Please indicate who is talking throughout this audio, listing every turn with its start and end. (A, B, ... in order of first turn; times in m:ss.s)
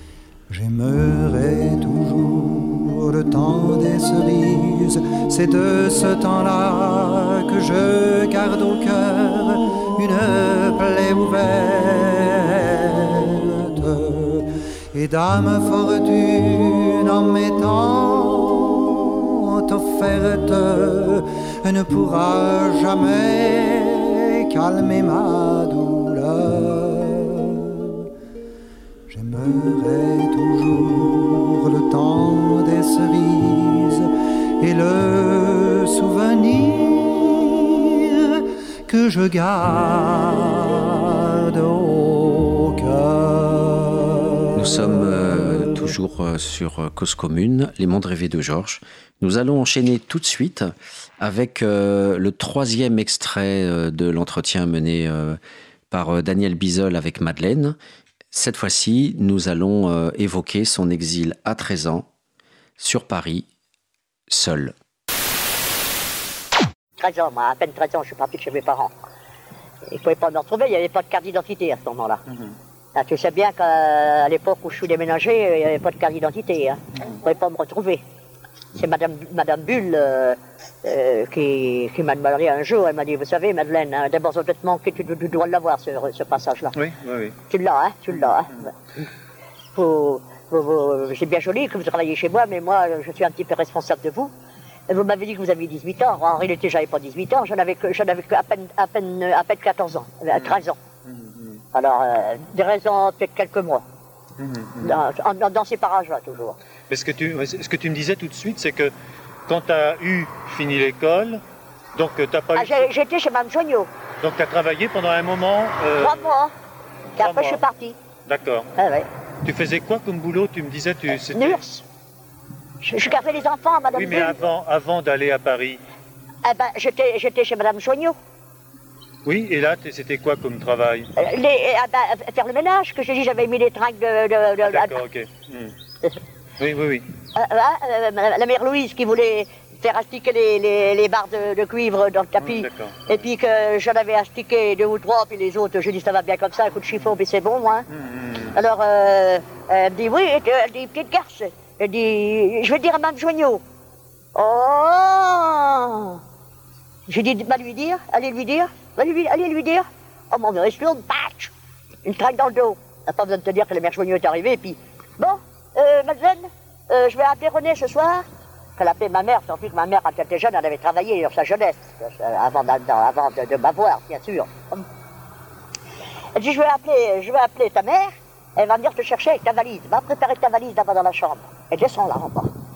0:00.5-0:28.0 A
0:29.1-0:34.1 A
0:34.6-0:44.8 A
0:44.5-0:55.4 B
0:55.9-0:57.8 B
0:58.3-1:02.0 B
1:02.8-1:03.4 B
1:04.3-1:04.7 B
1:07.0-1:08.9 C
1:09.9-1:12.2 C
1:12.3-1:12.5 D
1:12.9-1:18.0 C
1:18.8-1:26.7 C
1:26.7-1:27.4 D
1:27.5-1:28.7 C
1:29.7-1:34.3 C
1:34.9-1:40.8 C
1:40.3-1:41.6 D
1:41.7-1:43.8 C
1:44.4-1:45.0 D
1:44.8-1:46.6 C
1:46.9-1:48.9 D
1:49.5-1:51.4 D
1:51.9-1:52.9 D
1:52.6-1:53.9 C
1:54.2-1:56.3 D
1:56.0-1:56.5 C
1:57.2-1:58.0 C
1:57.2-1:57.6 D
1:58.2-1:58.7 D
1:58.8-1:59.1 C
1:59.4-2:01.6 D
2:01.3-2:01.8 C
2:02.8-2:04.4 C
2:03.9-2:05.8 D
2:06.4-2:08.2 C
2:09.2-2:11.1 D
2:11.2-2:15.0 C
2:14.6-2:15.7 D
2:16.6-2:17.1 D
2:17.3-2:27.9 C
2:22.4-2:23.0 D
2:27.9-2:28.6 D
2:28.5-2:33.6 C
2:34.3-2:36.2 C
2:37.1-2:41.5 C
2:42.0-2:48.2 C
2:48.8-2:54.8 C
2:56.3-3:02.5 C